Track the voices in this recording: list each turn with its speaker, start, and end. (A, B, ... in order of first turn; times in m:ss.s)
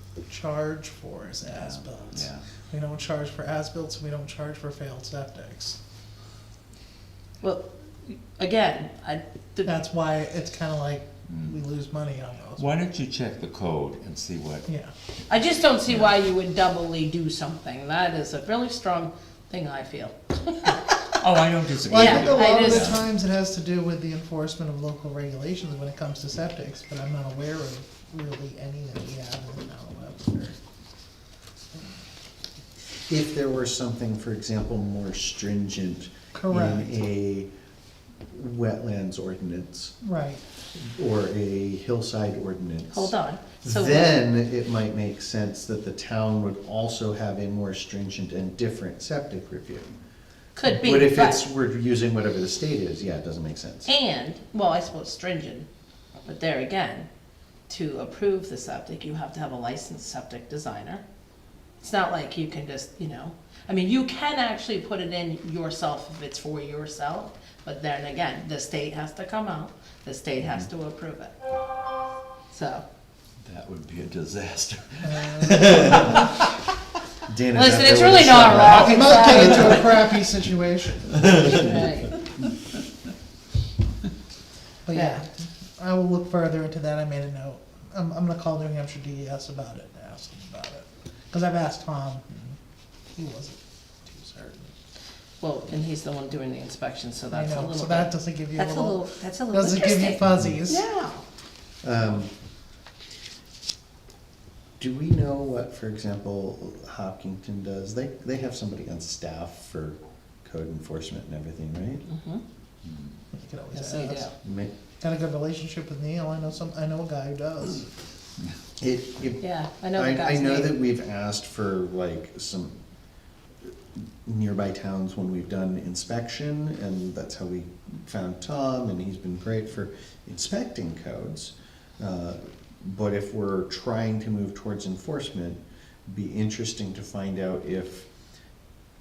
0:00.3-0:05.8 A
0:01.5-0:02.5 B
0:07.4-0:09.7 C
0:09.7-0:12.7 A
0:12.6-0:14.7 B
0:15.3-0:20.9 C
0:21.2-0:23.0 B
0:21.9-0:30.6 A
0:21.9-0:23.0 C
0:33.1-0:37.5 D
0:36.3-0:37.0 A
0:38.3-0:39.9 D
0:40.0-0:40.4 A
0:40.8-0:49.9 D
0:42.9-0:44.2 C
0:50.6-0:51.4 C
0:50.6-0:53.9 D
0:53.8-0:55.7 C
0:56.2-0:57.1 C
0:57.7-1:01.0 C
1:01.8-1:11.4 C
1:12.5-1:12.8 C
1:13.4-1:16.6 B
1:15.1-1:15.8 A
1:17.3-1:19.9 D
1:17.5-1:19.9 C
1:18.6-1:21.7 A
1:21.4-1:22.2 C
1:24.8-1:32.6 A
1:24.9-1:25.3 C
1:33.2-1:34.7 A
1:35.4-1:41.2 C
1:37.3-1:40.8 A
1:41.8-1:42.3 D
1:44.8-1:52.0 D
1:52.1-1:52.4 C
1:52.8-1:53.2 B
1:53.3-1:54.3 A
1:53.8-1:54.3 C
1:54.4-1:54.7 D
1:55.0-1:57.9 A
1:58.8-1:59.4 D
1:59.4-2:00.7 C
2:00.0-2:02.8 D
2:03.6-2:18.1 D